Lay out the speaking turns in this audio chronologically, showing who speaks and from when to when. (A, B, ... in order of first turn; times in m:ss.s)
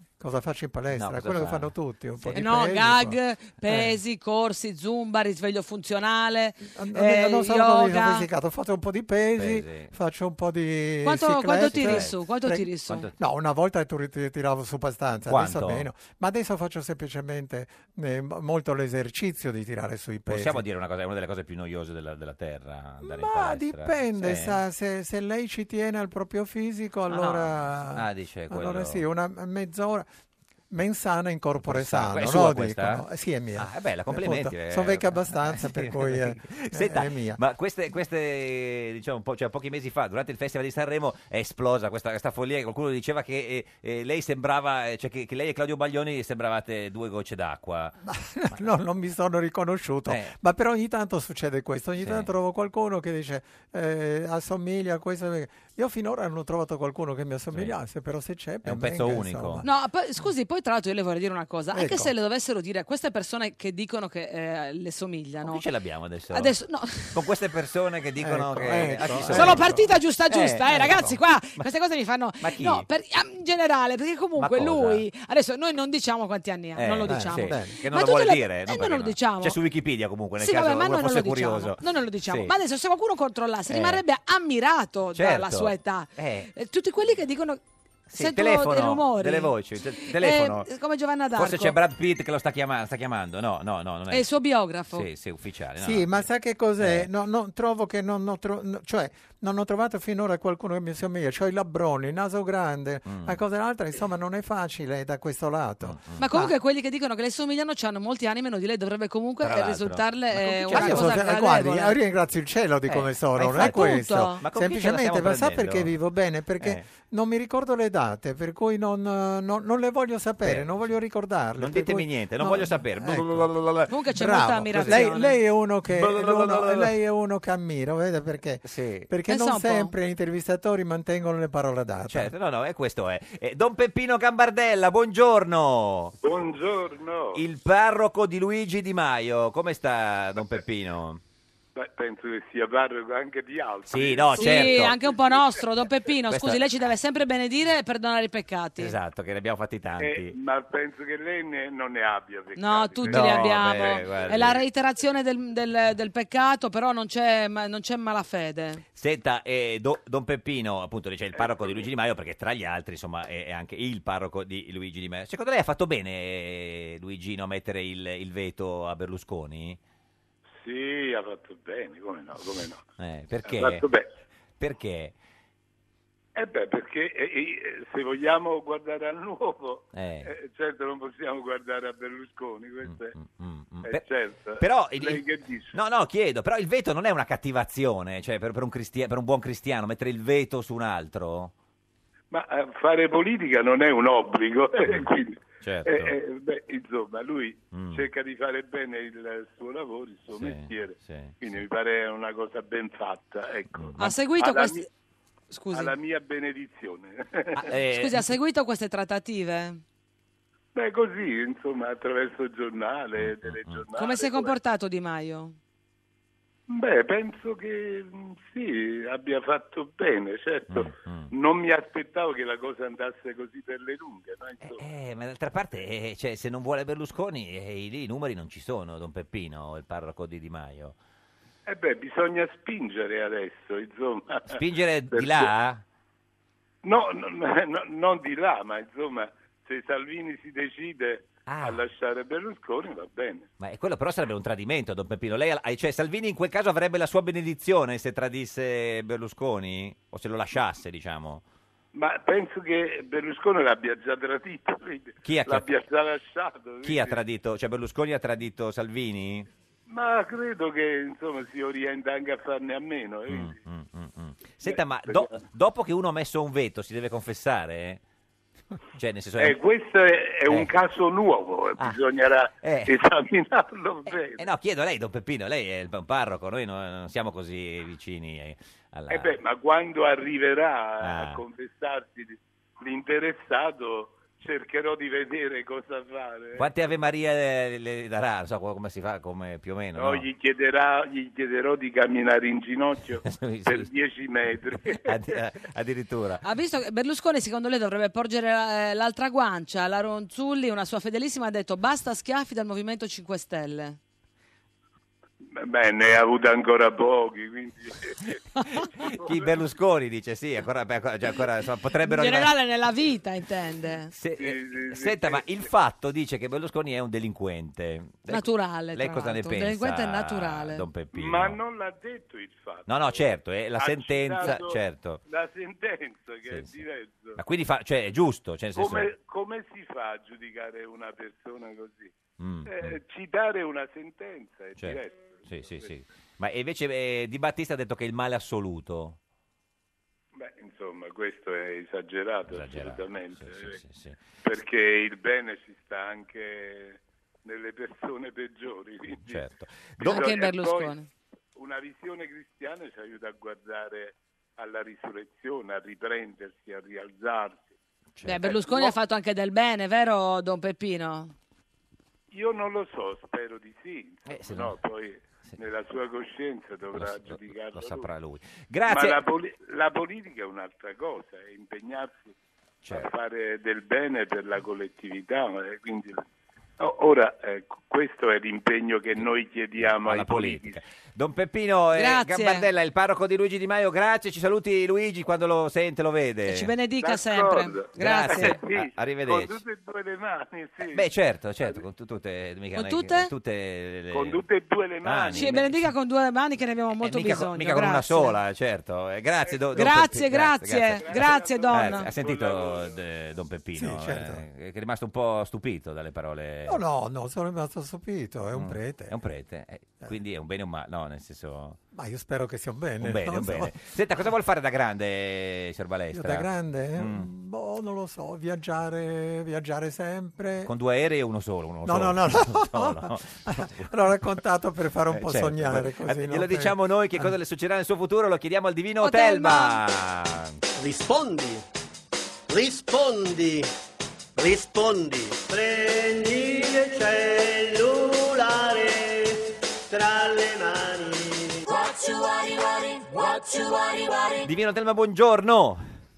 0:00.2-0:04.0 A
0:00.9-0:01.7 B
0:02.3-0:08.2 C
0:06.7-0:20.6 A
0:09.4-0:09.9 B
0:11.0-0:13.1 C
0:11.7-0:12.2 B
0:15.3-0:15.9 B
0:20.3-0:24.6 B
0:23.0-0:30.0 A
0:27.1-0:29.0 B
0:30.7-0:37.4 A
0:31.6-0:47.9 B
0:48.0-0:59.7 A
0:50.1-0:50.3 B
0:52.0-0:52.3 B
0:58.6-0:59.6 B
0:59.6-1:05.6 C
1:01.7-1:02.1 A
1:05.4-1:06.5 B
1:06.3-1:07.2 C
1:07.1-1:09.8 B
1:08.2-1:09.9 A
1:09.3-1:19.6 C
1:10.3-1:11.0 B
1:10.6-1:11.2 A
1:12.4-1:12.8 B
1:14.4-1:15.0 B
1:16.8-1:22.5 B
1:17.1-1:17.7 A
1:20.4-1:27.6 C
1:23.7-1:24.0 B
1:25.1-1:26.5 B
1:28.1-1:30.7 B
1:28.1-1:31.8 C
1:31.3-1:34.3 B
1:34.1-1:35.1 C
1:34.9-1:36.3 B
1:35.8-1:46.5 A
1:36.8-1:37.1 B
1:43.0-1:43.4 B
1:45.8-1:46.2 B
1:46.2-1:51.9 C
1:49.4-1:51.2 B
1:50.7-2:03.5 A
1:52.9-1:55.9 B
1:53.6-1:54.4 C
2:00.4-2:00.7 B
2:01.6-2:03.9 B
2:03.9-2:05.3 C
2:04.1-2:12.3 A
2:04.6-2:05.0 B
2:05.9-2:06.9 B
2:08.6-2:09.1 B
2:09.3-2:09.9 C
2:12.1-2:16.2 B
2:16.2-2:17.4 D
2:17.3-2:21.2 B
2:21.7-2:25.9 D
2:23.8-2:25.0 B
2:24.4-2:29.0 C
2:26.3-2:26.6 B
2:28.8-2:30.4 B
2:30.0-2:34.4 D
2:32.6-2:38.8 C
2:33.0-2:34.6 B
2:38.9-2:49.8 B
2:41.4-2:41.8 D
2:50.5-2:52.8 D
2:53.0-2:53.8 B
2:53.4-2:54.1 D
2:54.6-2:55.1 B
2:56.3-3:03.1 D
2:59.9-3:00.3 B
3:02.8-3:04.0 B
3:03.8-3:05.8 D
3:04.6-3:11.5 B
3:12.3-3:24.9 D
3:14.8-3:15.1 B
3:15.6-3:16.1 B
3:17.7-3:18.0 B
3:20.3-3:21.4 B
3:23.7-3:24.1 B
3:24.0-3:24.9 C
3:25.5-3:25.9 C
3:25.7-3:27.6 D
3:27.6-3:28.3 B
3:27.9-3:29.8 C
3:30.7-3:34.5 D
3:33.2-3:33.8 B
3:34.0-3:35.6 C
3:36.7-3:44.8 D
3:40.7-3:41.3 B
3:44.6-3:50.9 B
3:51.6-3:54.6 D
3:54.5-3:55.8 B
3:55.1-3:55.5 D
3:56.8-4:03.5 D
4:01.4-4:01.8 B
4:03.6-4:11.4 B
4:11.9-4:17.2 D
4:15.2-4:15.7 B
4:16.8-4:19.5 B
4:19.9-4:23.6 D
4:23.3-4:28.0 B
4:24.6-4:25.4 D
4:29.0-4:29.6 B
4:29.4-4:34.4 D
4:32.6-4:32.9 B
4:34.4-4:39.4 B
4:39.1-4:46.7 D
4:41.0-4:41.4 B
4:46.6-4:50.2 B
4:50.0-4:55.2 D
4:53.2-4:53.9 B
4:54.7-4:56.4 B
4:56.4-5:04.0 C
5:05.4-5:08.4 D
5:08.8-5:12.5 B
5:09.0-5:09.5 D
5:12.0-5:14.1 C
5:14.1-5:21.6 B
5:14.4-5:15.6 D
5:18.3-5:20.8 C
5:21.1-5:23.3 D
5:22.9-5:25.2 B
5:23.8-5:27.4 D
5:26.5-5:26.8 B
5:27.4-5:29.1 B
5:28.8-5:32.1 D
5:32.4-5:33.0 B
5:32.6-5:36.0 D
5:34.8-5:39.2 B
5:40.3-5:43.8 D
5:42.5-5:44.2 B
5:44.4-5:49.4 D
5:49.2-5:50.2 B
5:50.0-5:51.0 D
5:50.0-5:51.1 C
5:51.5-5:57.7 D
5:58.1-5:58.6 B
5:58.2-6:01.3 C
5:58.5-5:59.0 D
6:02.3-6:08.1 D
6:04.3-6:04.8 B
6:06.9-6:09.2 B
6:08.9-6:12.3 D
6:12.8-6:13.1 B
6:12.9-6:16.2 D
6:16.8-6:20.8 D
6:19.8-6:26.7 B
6:21.9-6:22.6 C
6:26.5-6:28.6 C
6:27.0-6:31.1 D
6:28.0-6:29.6 B
6:30.9-6:34.4 B
6:32.7-6:33.3 C
6:34.1-6:35.5 D
6:35.0-6:35.9 B
6:35.3-6:38.4 C
6:37.0-6:46.8 B
6:39.4-6:40.0 D
6:39.8-6:42.1 C
6:41.0-6:43.0 D
6:43.8-6:44.4 A
6:46.6-6:49.1 A
6:48.5-6:51.8 B
6:51.9-6:53.7 A
6:53.0-6:57.3 B
6:56.1-7:00.7 A
7:00.6-7:03.9 B
7:01.8-7:07.3 A
7:05.1-7:10.6 B
7:09.0-7:09.8 C
7:10.8-7:11.6 E
7:12.5-7:13.7 E
7:14.4-7:21.8 E
7:22.8-7:24.2 E
7:24.4-7:25.8 B